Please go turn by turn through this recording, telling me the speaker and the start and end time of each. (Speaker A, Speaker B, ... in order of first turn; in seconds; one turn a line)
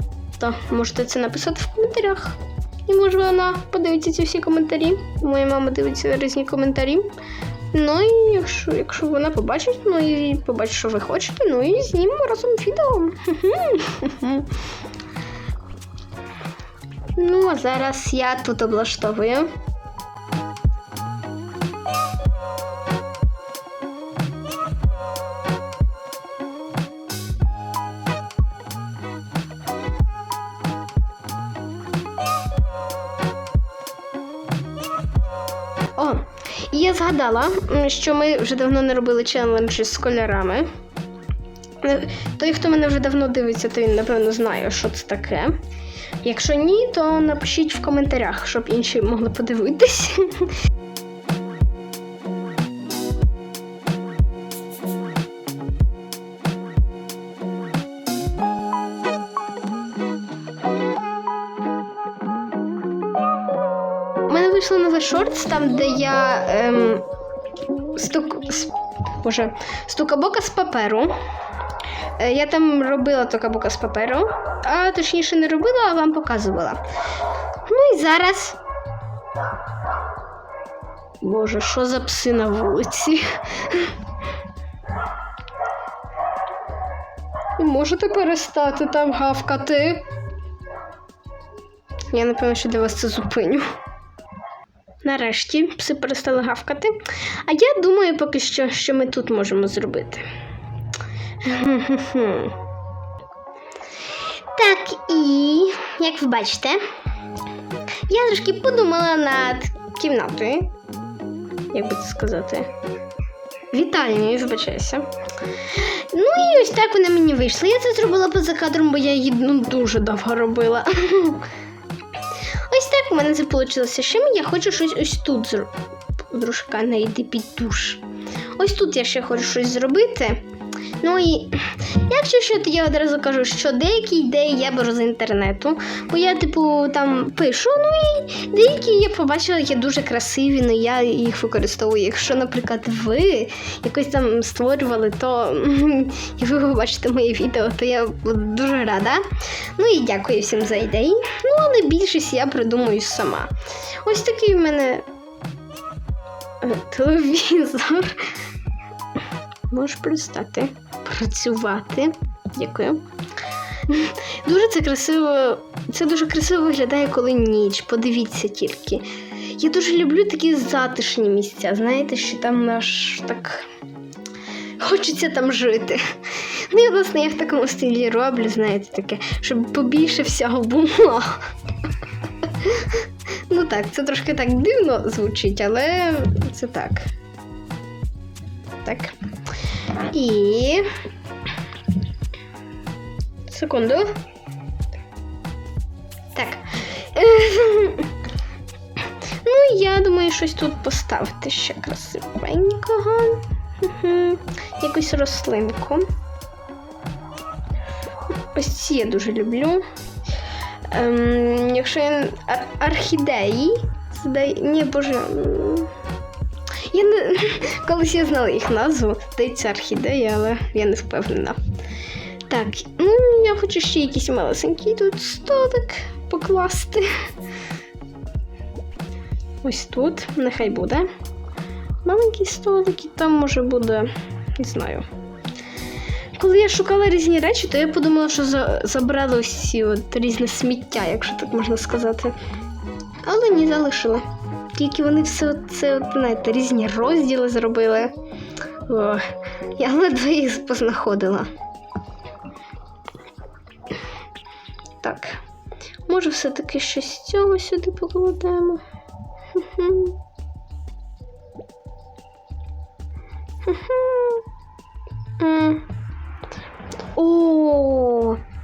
Speaker A: 0.4-7.1
Speaker A: 7.7-14.6
Speaker A: 17.2-19.5
Speaker A: 36.0-40.7
Speaker A: 41.8-45.6
Speaker A: 46.2-50.5
Speaker A: 64.3-67.1
Speaker A: 67.9-71.2
Speaker A: 72.2-76.8
Speaker A: 77.7-78.6
Speaker A: 81.2-84.0
Speaker A: 87.6-90.1
Speaker A: 92.1-93.7
Speaker A: 95.0-100.3
Speaker A: 101.4-102.6
Speaker A: 104.5-106.8
Speaker A: 108.1-110.7
Speaker A: 111.7-112.7
Speaker A: 113.7-115.1
Speaker A: 115.7-121.5
Speaker A: 122.7-125.7
Speaker A: 126.3-128.0
Speaker A: 128.6-130.4
Speaker A: 131.0-149.2
Speaker A: 149.8-155.1
Speaker A: 156.6-158.3
Speaker A: 159.7-163.1
Speaker A: 163.8-173.7
Speaker A: 174.8-181.4
Speaker A: 182.4-187.1
Speaker A: 188.8-189.2
Speaker A: 190.1-190.9
Speaker A: 193.5-194.1
Speaker A: 196.3-198.1
Speaker A: 199.4-206.1
Speaker A: 208.5-209.8
Speaker A: 210.9-215.9
Speaker A: 216.9-221.6
Speaker A: 222.5-227.1
Speaker A: 229.6-231.1
Speaker A: 232.0-235.1
Speaker A: 236.4-242.4
Speaker A: 243.2-248.2
Speaker A: 248.9-249.3
Speaker A: 249.8-251.5
Speaker A: 255.0-255.4
Speaker A: 256.1-258.8
Speaker A: 259.5-260.2
Speaker A: 263.6-264.4
Speaker A: 265.4-265.9
Speaker A: 267.1-268.4